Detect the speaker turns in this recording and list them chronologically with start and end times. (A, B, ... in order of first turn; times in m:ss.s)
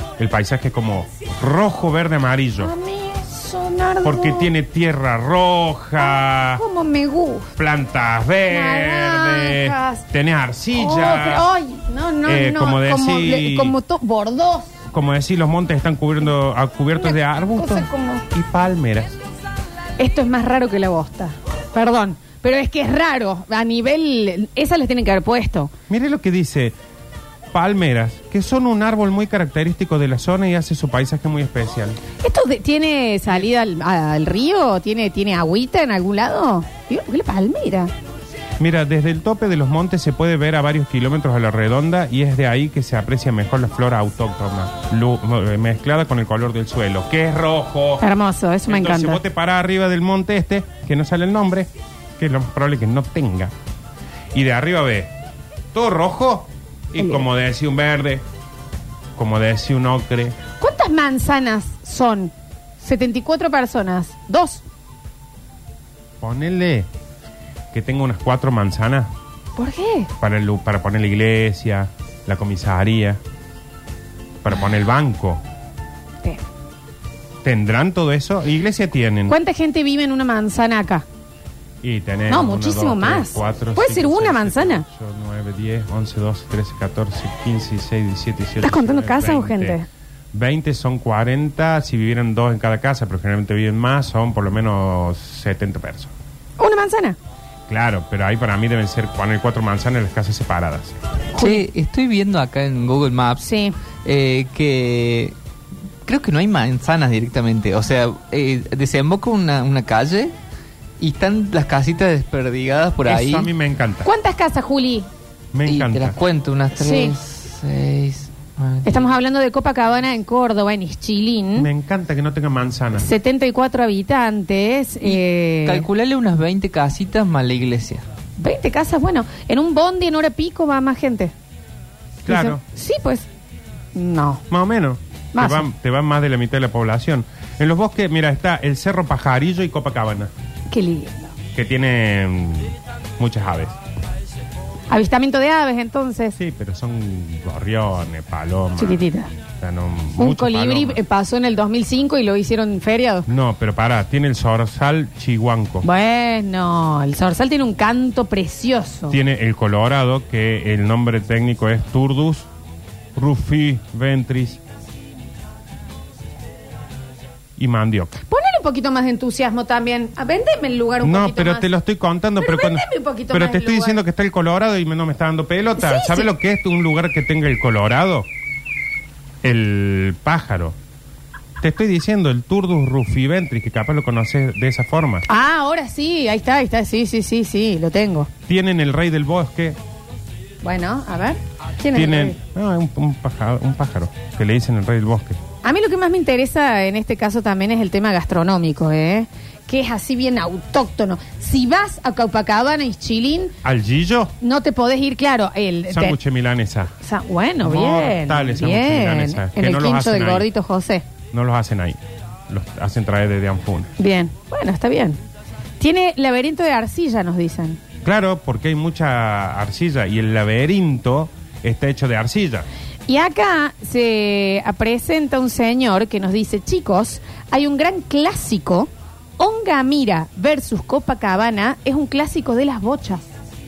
0:00.2-0:02.7 A
0:02.6-0:04.5 B
0:04.0-0:06.6 A
0:06.0-0:07.5 B
0:07.6-0:11.4 A
0:08.5-0:10.0 B
0:10.7-0:14.7 B
0:12.2-0:13.8 A
0:14.9-0:19.2 A
0:17.0-0:18.2 B
0:20.0-0:25.7 B
0:25.9-0:26.8 A
0:27.5-0:32.0 A
0:32.2-0:37.9 B
0:38.6-0:48.0 A
0:48.0-0:49.2 B
0:48.7-0:53.5 A
0:54.3-0:55.1 A
0:55.7-0:58.2 A
0:57.0-0:57.2 B
0:59.2-1:00.4 A
1:00.6-1:04.6 B
1:06.2-1:06.9 A
1:07.7-1:09.1 A
1:09.6-1:10.1 B
1:10.2-1:13.2 A
1:14.4-1:15.4 A
1:17.4-1:19.4 A
1:19.3-1:21.0 B
1:21.8-1:29.8 A
1:22.3-1:24.8 B
1:28.6-1:29.8 B
1:30.3-1:36.1 A
1:36.6-1:37.2 B
1:37.7-1:40.9 A
1:41.3-1:43.5 C
1:41.4-1:41.6 B
1:43.4-1:43.7 B
1:44.0-1:45.3 C
1:46.0-1:50.3 C
1:51.0-1:53.5 C
1:53.0-1:54.1 A
1:54.0-1:55.1 B
1:55.5-1:56.2 A
1:55.7-1:59.1 C
1:56.8-1:57.1 B
1:58.8-2:01.7 B
2:01.6-2:03.1 A
2:02.9-2:05.9 B
2:05.0-2:08.0 C
2:08.4-2:11.3 B
2:12.2-2:12.6 A
2:12.2-2:13.3 B
2:13.9-2:14.4 B
2:14.5-2:20.3 A
2:15.3-2:15.7 B
2:20.7-2:21.3 B
2:21.5-2:23.8 A
2:24.9-2:26.4 B
2:26.4-2:29.0 A
2:28.8-2:29.3 B
2:29.6-2:31.0 A
2:30.2-2:33.3 B
2:33.3-2:35.9 A
2:35.8-2:39.2 B
2:39.1-2:42.5 A
2:43.1-2:44.6 A
2:47.6-2:48.2 A
2:48.3-2:51.6 B
2:51.0-2:58.3 A
2:52.4-2:54.0 B
2:55.8-2:56.3 B
2:59.4-3:00.8 A
3:01.6-3:05.2 A
3:05.3-3:08.3 B
3:08.5-3:09.8 A
3:10.6-3:12.4 B
3:11.9-3:15.4 A
3:15.6-3:23.5 B
3:23.6-3:24.3 A
3:24.4-3:26.2 B
3:25.9-3:26.9 A
3:27.0-3:31.0 B
3:27.6-3:30.5 A
3:31.3-3:33.9 A
3:34.0-3:35.2 B
3:35.8-3:37.8 B
3:38.0-3:42.7 A
3:43.1-3:53.2 B